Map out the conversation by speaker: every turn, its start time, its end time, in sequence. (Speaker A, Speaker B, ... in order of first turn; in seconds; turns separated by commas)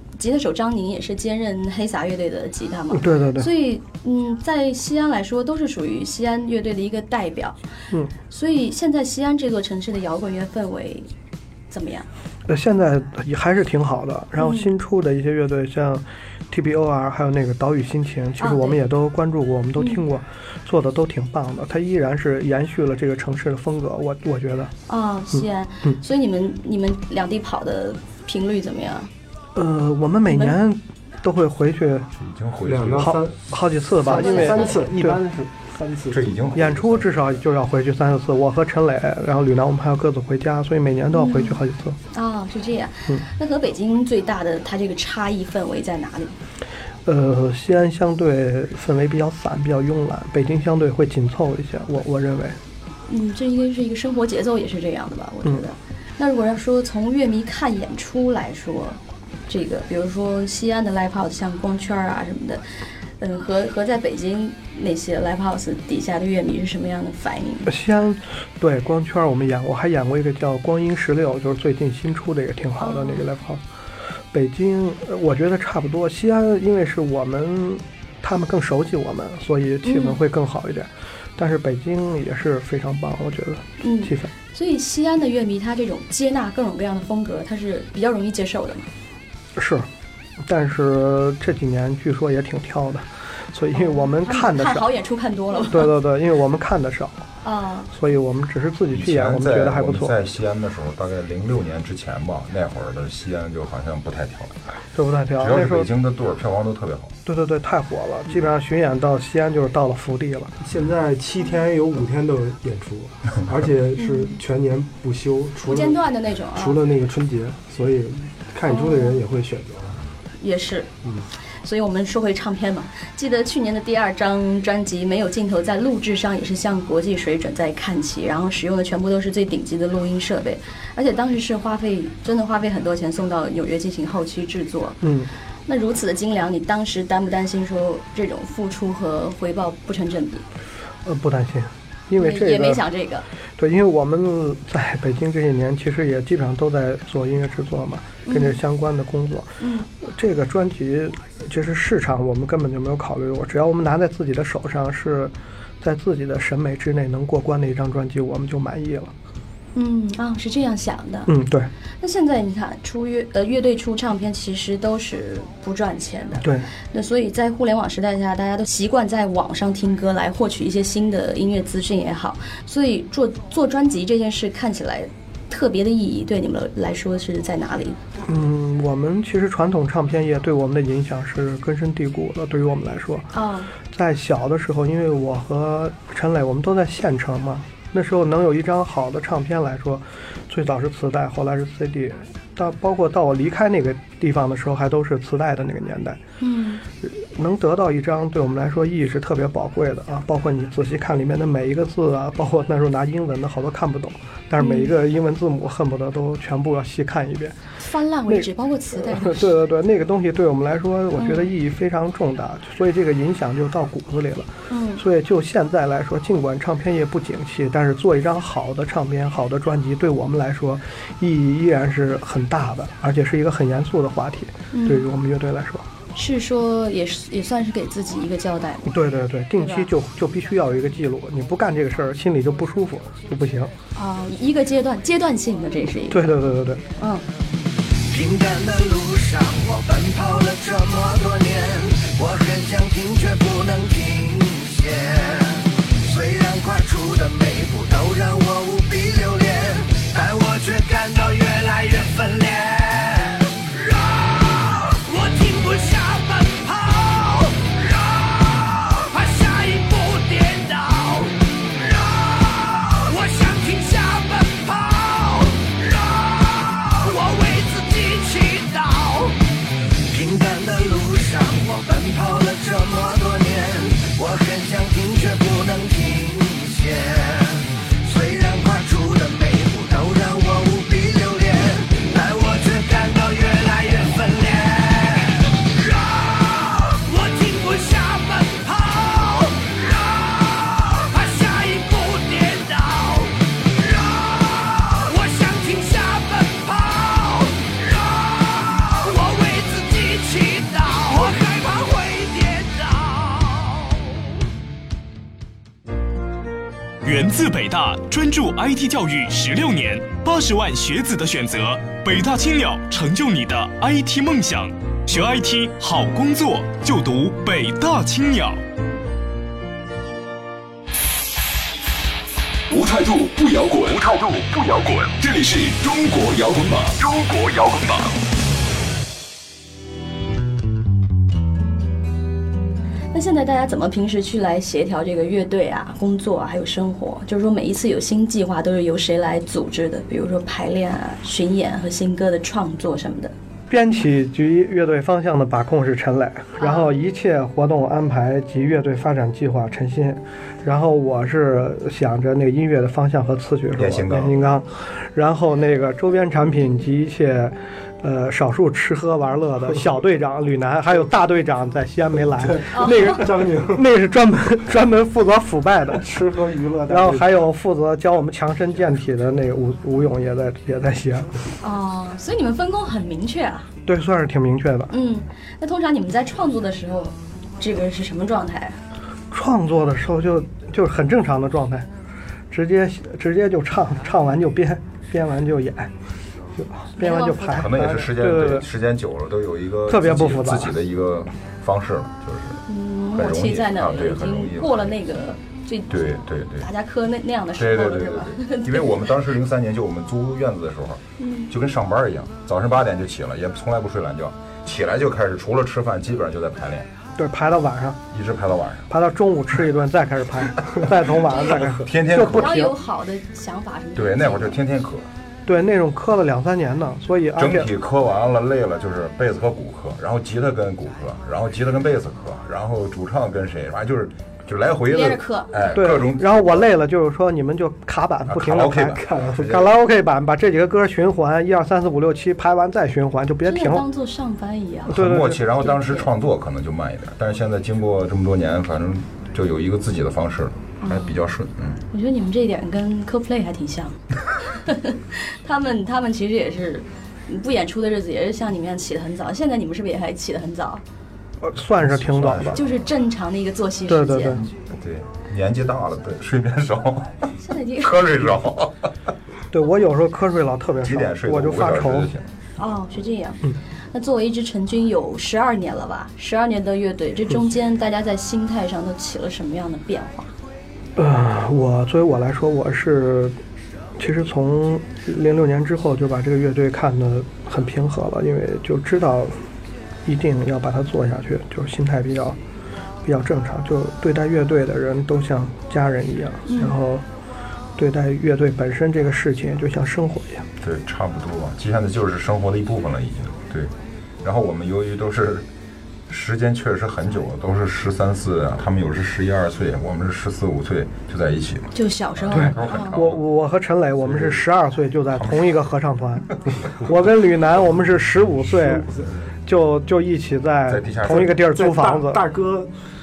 Speaker A: 0.2-7.6, Speaker B: 2.9-3.5, Speaker A: 8.3-11.1, Speaker A: 11.7-12.1, Speaker B: 12.5-24.7, Speaker A: 14.4-14.7, Speaker A: 18.4-18.8, Speaker A: 24.9-29.1, Speaker B: 25.3-25.9, Speaker B: 29.5-32.1, Speaker A: 30.3-30.6, Speaker C: 32.1-33.2, Speaker D: 32.6-36.4, Speaker B: 33.0-35.2, Speaker A: 34.1-34.9, Speaker C: 36.1-37.3, Speaker B: 36.5-42.0, Speaker A: 41.1-41.6, Speaker A: 42.1-46.4, Speaker B: 47.0-52.6, Speaker A: 53.1-62.6, Speaker A: 63.2-67.7, Speaker B: 67.6-73.6, Speaker A: 72.8-73.2, Speaker B: 74.3-84.3, Speaker A: 79.8-80.2, Speaker A: 83.8-88.9, Speaker B: 89.5-89.9, Speaker B: 90.4-94.9, Speaker A: 93.7-95.9, Speaker B: 95.5-97.2, Speaker A: 97.4-97.9, Speaker B: 97.9-100.1, Speaker C: 98.9-104.5, Speaker B: 104.9-105.9, Speaker C: 105.4-107.1, Speaker B: 107.2-110.5, Speaker D: 110.6-120.0, Speaker A: 114.0-114.4, Speaker A: 115.6-116.8, Speaker A: 118.7-119.2, Speaker A: 120.4-120.9, Speaker A: 121.6-135.0, Speaker B: 135.0-135.3, Speaker A: 135.7-140.4, Speaker B: 141.0-142.8, Speaker A: 142.2-143.3, Speaker B: 143.6-159.1, Speaker A: 148.2-148.6, Speaker A: 149.6-149.9, Speaker A: 159.7-161.3, Speaker B: 161.3-161.7, Speaker A: 162.0-178.0, Speaker B: 166.4-166.7, Speaker B: 178.2-183.3, Speaker A: 183.3-183.7, Speaker B: 183.9-196.2, Speaker A: 196.4-196.8, Speaker B: 197.0-207.6, Speaker A: 204.6-204.9, Speaker A: 207.8-209.5, Speaker B: 208.3-225.9, Speaker A: 211.2-211.5, Speaker A: 214.7-215.0, Speaker A: 224.7-225.1, Speaker A: 226.1-228.9, Speaker B: 228.8-233.7, Speaker A: 229.6-229.9, Speaker A: 233.9-236.2, Speaker B: 236.1-236.8, Speaker A: 237.0-237.2, Speaker E: 238.1-269.4, Speaker E: 270.1-304.0, Speaker F: 307.0-318.6, Speaker G: 322.7-328.2, Speaker A: 333.1-343.3, Speaker B: 343.7-366.1, Speaker A: 346.6-346.9, Speaker C: 353.8-354.4, Speaker D: 362.4-363.8, Speaker A: 362.7-363.2, Speaker D: 365.9-367.3, Speaker B: 366.9-371.3, Speaker A: 371.6-373.7, Speaker B: 373.9-374.9, Speaker A: 374.9-378.8, Speaker B: 379.3-381.9, Speaker B: 382.5-385.9, Speaker B: 386.6-388.7, Speaker A: 387.0-387.7, Speaker C: 387.4-392.6, Speaker B: 389.9-390.7, Speaker A: 392.7-396.0, Speaker C: 393.1-395.0, Speaker C: 395.9-396.7, Speaker A: 396.6-399.1, Speaker C: 397.5-406.9, Speaker A: 401.2-401.5, Speaker B: 407.1-408.0, Speaker C: 408.1-408.9, Speaker B: 408.9-412.8, Speaker A: 411.3-411.6, Speaker C: 411.5-412.7, Speaker A: 412.3-414.6, Speaker C: 413.9-415.1, Speaker B: 415.4-417.7, Speaker C: 417.4-426.7, Speaker A: 424.9-425.7, Speaker B: 425.7-433.9, Speaker C: 428.2-429.6, Speaker D: 428.9-429.6, Speaker A: 433.4-434.9, Speaker B: 434.9-436.0, Speaker C: 434.9-441.8, Speaker A: 440.8-441.2, Speaker A: 441.9-443.9, Speaker A: 444.6-450.8, Speaker B: 451.4-452.6, Speaker C: 451.8-452.9, Speaker A: 452.5-454.4, Speaker B: 453.9-454.4, Speaker C: 454.7-457.2, Speaker A: 457.4-458.3, Speaker C: 457.8-458.9, Speaker B: 459.5-462.1, Speaker C: 460.8-462.3, Speaker A: 462.6-463.4, Speaker A: 463.9-470.3, Speaker B: 470.9-473.4, Speaker B: 474.0-479.4, Speaker B: 480.0-482.4, Speaker B: 483.0-487.0, Speaker A: 486.4-486.8, Speaker B: 487.8-490.5, Speaker C: 490.6-493.7, Speaker C: 494.2-495.5, Speaker C: 496.1-503.2, Speaker A: 501.7-502.9, Speaker B: 502.3-508.9, Speaker C: 505.1-505.7, Speaker D: 508.5-509.2, Speaker B: 509.4-512.2, Speaker C: 510.7-511.4, Speaker D: 511.1-512.7